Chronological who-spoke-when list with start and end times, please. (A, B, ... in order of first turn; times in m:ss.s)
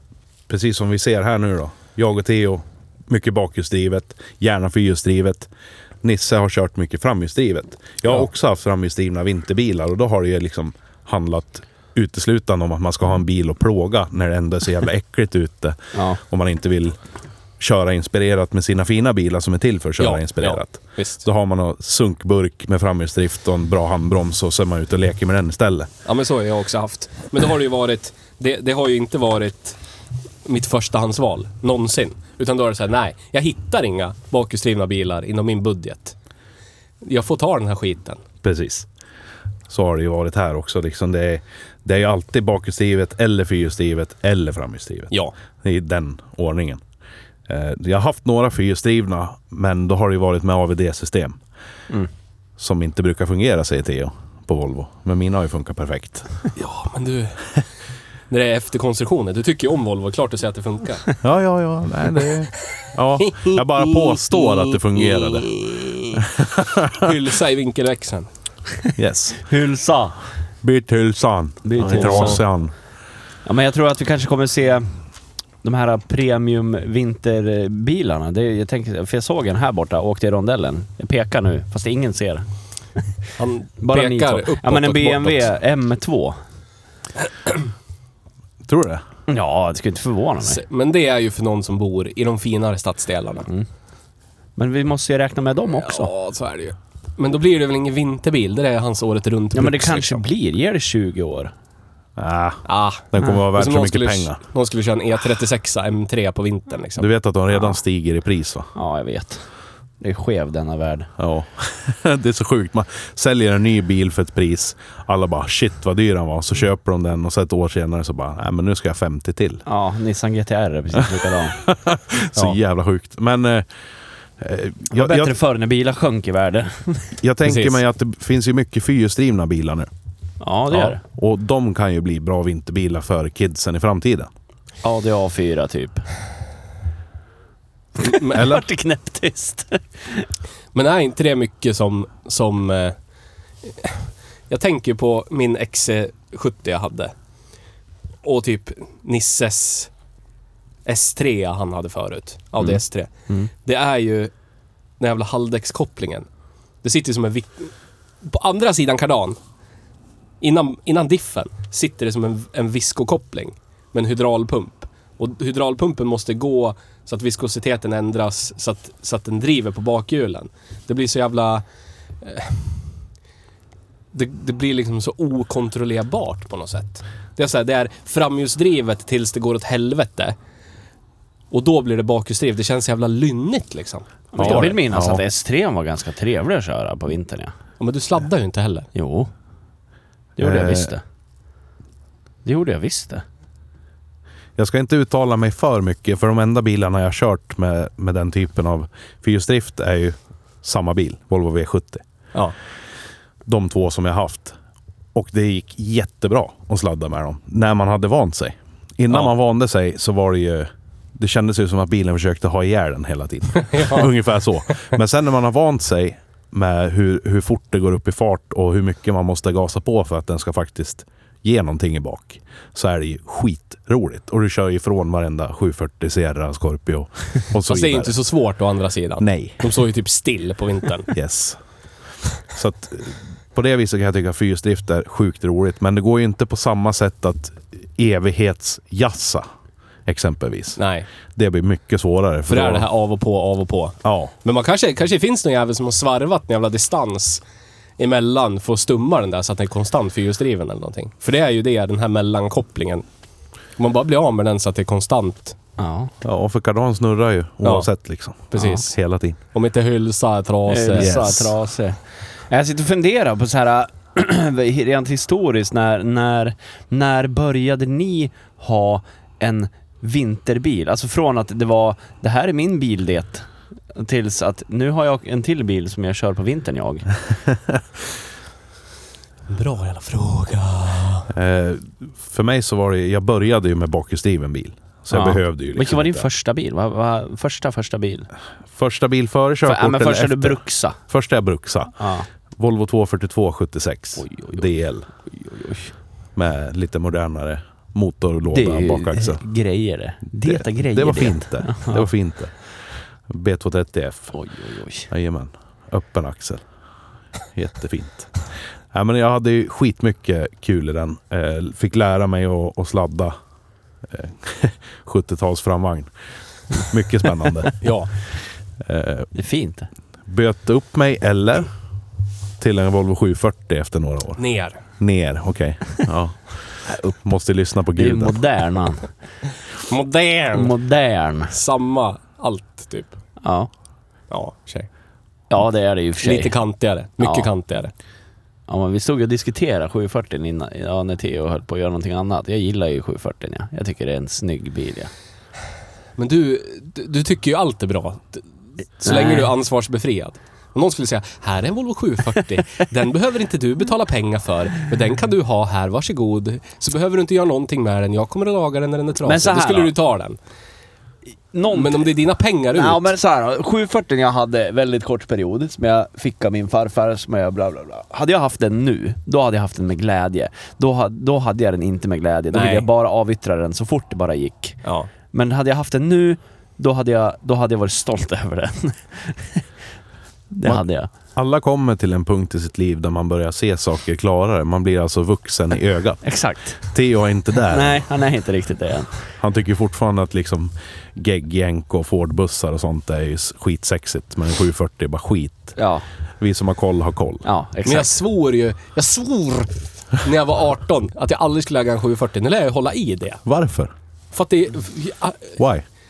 0:00.5-0:05.5 A
0:06.0-0:17.0 A
0:15.9-0:16.2 B
0:17.6-0:25.9 A
0:20.0-0:21.2 C
0:26.1-0:29.8 C
0:30.4-0:36.2 C
0:37.0-0:38.2 C
0:38.4-0:38.9 A
0:39.7-0:46.8 A
0:47.5-0:51.4 A
0:52.6-0:56.3 A
0:56.6-0:57.5 C
0:58.3-1:01.1 C
1:01.2-1:05.5 A
1:03.4-1:05.4 C
1:06.2-1:07.1 A
1:07.0-1:08.3 C
1:09.0-1:09.4 A
1:09.4-1:10.2 B
1:10.6-1:12.7 A
1:11.6-1:12.4 B
1:11.8-1:12.4 C
1:13.5-1:15.0 B
1:15.6-1:22.5 B
1:23.4-1:25.5 C
1:23.8-1:26.4 B
1:28.6-1:29.0 A
1:29.3-1:30.6 B
1:30.4-1:33.5 C
1:34.6-1:36.1 B
1:35.8-1:40.2 C
1:39.5-1:41.5 B
1:42.2-1:44.4 A
1:42.7-1:47.1 C
1:47.0-1:48.7 A
1:48.8-1:49.4 B
1:50.0-1:51.1 B
1:51.2-1:59.6 A
1:59.7-2:01.6 B
2:01.6-2:03.7 A
2:04.4-2:05.4 A
2:04.9-2:07.2 B
2:07.2-2:09.9 A
2:07.4-2:07.8 C
2:10.4-2:11.0 B
2:10.7-2:14.3 A
2:14.8-2:16.0 B
2:18.0-2:20.3 B
2:18.1-2:18.5 C
2:20.7-2:23.0 C
2:23.7-2:27.1 C
2:28.2-2:29.9 C
2:30.9-2:33.1 C
2:32.6-2:33.5 B
2:33.6-2:34.3 C
2:35.0-2:36.3 C
2:36.8-2:37.7 C
2:38.2-2:39.4 C
2:40.4-2:51.6 C
2:52.2-2:52.8 C
2:54.1-3:00.4 C
3:01.5-3:04.8 C
3:04.3-3:07.5 B
3:04.4-3:05.2 A
3:07.8-3:08.9 C
3:09.0-3:09.3 B
3:10.4-3:11.0 B
3:10.4-3:10.9 A
3:12.4-3:13.2 B
3:14.6-3:22.0 A
3:23.5-3:24.6 A
3:25.2-3:48.2 A
3:33.7-3:34.1 C
3:47.7-3:51.1 C
3:49.2-3:49.6 A
3:51.1-3:51.6 A
3:52.5-3:59.5 A
4:00.1-4:00.8 A
4:00.8-4:01.1 C
4:01.4-4:02.9 A
4:02.5-4:07.4 C
4:04.0-4:04.3 A
4:08.0-4:13.0 C
4:13.8-4:15.6 C
4:15.8-4:16.1 B
4:16.2-4:19.4 A
4:17.6-4:17.9 C
4:18.5-4:19.0 C
4:19.5-4:21.4 C
4:20.7-4:37.1 B
4:21.0-4:21.5 A
4:39.5-4:41.3 C
4:41.3-4:46.3 A
4:45.1-4:48.3 B
4:48.7-4:52.0 A
4:49.6-4:51.0 B
4:52.0-4:52.3 B
4:52.6-4:55.1 A
4:54.2-4:54.7 B
4:55.3-4:55.9 B
4:56.4-4:59.4 A
4:58.5-5:02.1 B
5:00.4-5:02.5 A
5:03.3-5:04.3 A
5:04.3-5:05.1 B
5:05.1-5:06.6 A
5:07.6-5:08.4 A
5:08.9-5:13.4 A
5:14.1-5:16.1 A
5:16.8-5:17.8 A
5:17.8-5:18.1 C
5:18.8-5:19.3 A
5:19.3-5:19.9 B
5:20.3-5:21.7 A
5:22.6-5:24.4 A
5:24.4-5:24.8 C
5:25.0-5:28.4 A
5:28.0-5:29.1 B
5:29.9-5:30.8 C
5:30.5-5:31.5 B
5:31.5-5:33.2 C
5:33.4-5:33.7 B
5:34.3-5:34.9 C
5:35.5-5:36.5 B
5:36.2-5:37.9 C
5:37.2-5:37.5 B
5:38.7-5:45.1 B
5:46.2-5:48.4 C
5:49.0-6:00.4 C
5:49.0-5:49.5 B
5:59.2-5:59.9 B
6:01.5-6:02.1 B
6:01.7-6:03.1 C
6:02.7-6:14.8 B
6:12.5-6:12.9 C
6:14.8-6:15.1 C
6:15.3-6:19.6 B
6:20.5-6:21.1 B
6:21.4-6:26.2 A
6:26.2-6:26.8 B
6:26.8-6:28.0 A
6:27.7-6:29.1 B
6:29.4-6:35.8 A
6:35.8-6:36.1 B
6:36.4-6:37.4 A
6:37.4-6:38.1 B
6:37.9-6:43.4 C
6:43.4-6:43.9 A
6:44.3-6:45.6 C
6:45.6-6:45.8 A